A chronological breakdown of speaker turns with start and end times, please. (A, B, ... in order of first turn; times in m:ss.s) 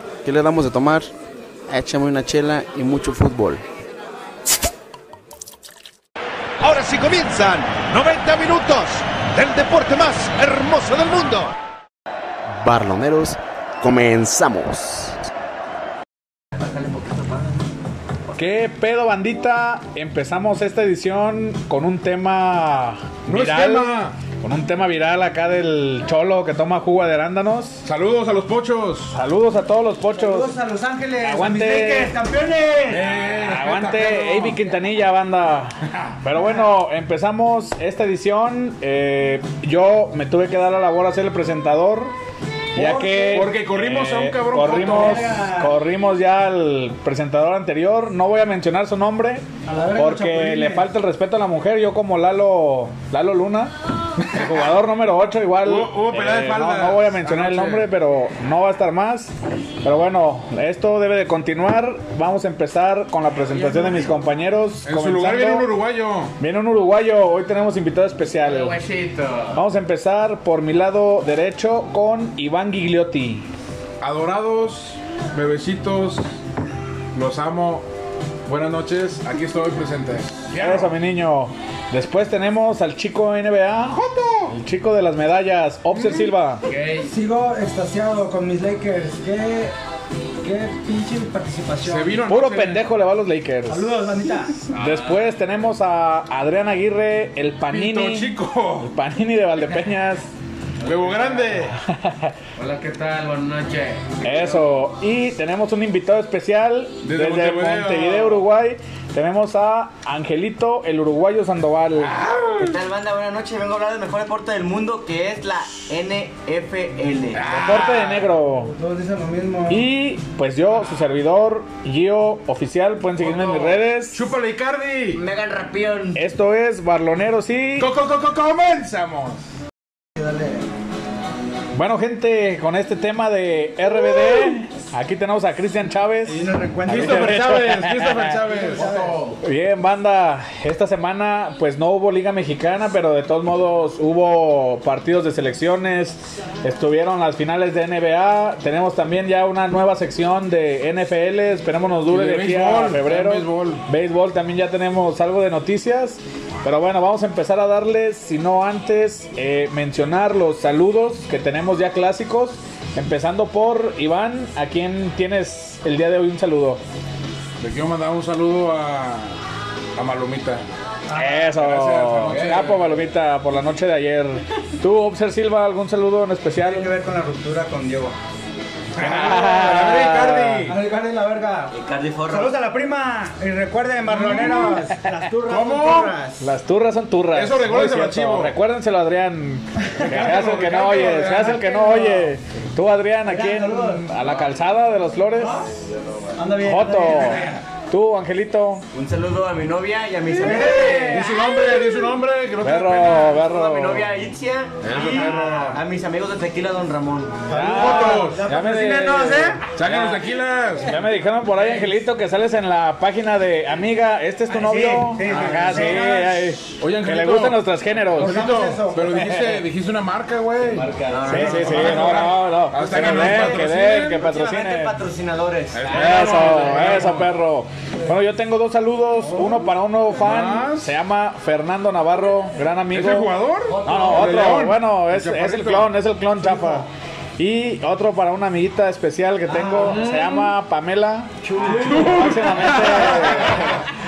0:00.2-0:01.1 A
0:01.7-0:03.6 A
0:06.6-0:11.5 B
0:12.5-0:15.1 A
0:18.3-0:27.8 C
0:23.3-0:24.2 D
0:27.8-0:29.2 D
0:29.1-0:30.5 C
0:30.1-0:33.1 E
0:31.2-0:32.2 C
0:32.9-0:34.6 D
0:33.3-0:42.1 C
0:36.4-0:36.7 E
0:42.7-0:43.6 E
0:42.7-1:05.7 C
0:43.3-0:45.4 D
0:44.5-0:45.8 E
0:49.6-0:50.9 E
0:54.2-0:54.7 D
0:55.6-0:57.9 D
1:04.8-1:06.3 D
1:06.4-1:08.8 C
1:08.4-1:09.6 F
1:09.5-1:13.4 C
1:14.0-1:16.3 D
1:17.1-1:17.8 D
1:18.4-1:20.9 D
1:20.6-1:26.6 C
1:23.9-1:24.5 D
1:26.6-1:27.1 F
1:27.1-1:29.7 E
1:30.4-1:32.2 E
1:31.8-1:32.9 D
1:32.3-1:34.0 C
1:33.7-1:34.5 E
1:34.7-1:40.3 C
1:34.8-1:35.3 F
1:37.7-1:38.9 D
1:40.8-1:41.5 F
1:40.8-1:41.8 D
1:41.7-1:42.3 C
1:42.6-1:44.6 F
1:44.2-1:52.2 C
1:47.0-1:48.4 D
1:52.0-1:52.8 D
1:52.6-1:57.4 G
1:57.3-1:58.3 D
1:57.4-1:58.7 C
1:58.6-1:59.9 E
1:59.7-2:04.2 C
2:03.3-2:05.2 D
2:05.1-2:06.2 G
2:06.1-2:07.9 C
2:07.8-2:09.4 D
2:10.2-2:10.6 E
2:11.7-2:18.4 C
2:14.1-2:14.4 D
2:16.2-2:17.4 E
2:16.9-2:18.9 D
2:18.4-2:19.4 F
2:18.6-2:19.2 E
2:19.4-2:46.8 C
2:32.1-2:33.8 D
2:47.6-2:49.4 D
2:50.0-2:50.6 D
2:51.1-2:51.4 E
2:51.1-2:56.9 C
2:51.4-2:52.9 D
2:52.3-2:52.8 F
2:56.6-2:58.2 E
2:59.0-3:00.7 C
2:59.0-3:00.8 D
2:59.0-3:05.9 E
3:01.7-3:02.5 G
3:04.1-3:04.9 D
3:04.4-3:05.0 C
3:05.4-3:06.5 G
3:05.5-3:06.2 D
3:06.4-3:15.6 C
3:07.3-3:08.6 D
3:10.0-3:12.0 D
3:11.6-3:12.3 E
3:13.2-3:14.0 E
3:15.4-3:15.7 E
3:16.4-3:17.5 E
3:16.6-3:18.8 C
3:18.9-3:22.0 G
3:20.4-3:21.4 E
3:20.4-3:23.4 D
3:22.6-3:24.1 C
3:23.3-3:27.5 G
3:24.8-3:25.8 D
3:25.0-3:25.8 E
3:27.5-3:29.6 E
3:27.5-3:30.2 C
3:27.6-3:28.4 D
3:29.8-3:31.0 D
3:30.8-3:38.5 C
3:31.6-3:31.9 E
3:34.5-3:36.3 E
3:35.2-3:44.2 D
3:38.2-3:39.6 E
3:39.3-3:39.6 C
3:40.6-3:41.7 F
3:41.1-3:47.0 G
3:41.3-3:45.0 C
3:45.7-3:47.3 D
3:45.9-3:56.9 C
3:49.2-3:49.7 E
3:50.1-3:50.9 D
3:52.9-3:56.8 D
3:53.7-3:54.5 G
3:57.4-4:03.8 C
3:59.5-4:00.1 G
3:59.8-4:00.5 D
4:01.4-4:03.7 G
4:01.7-4:03.8 D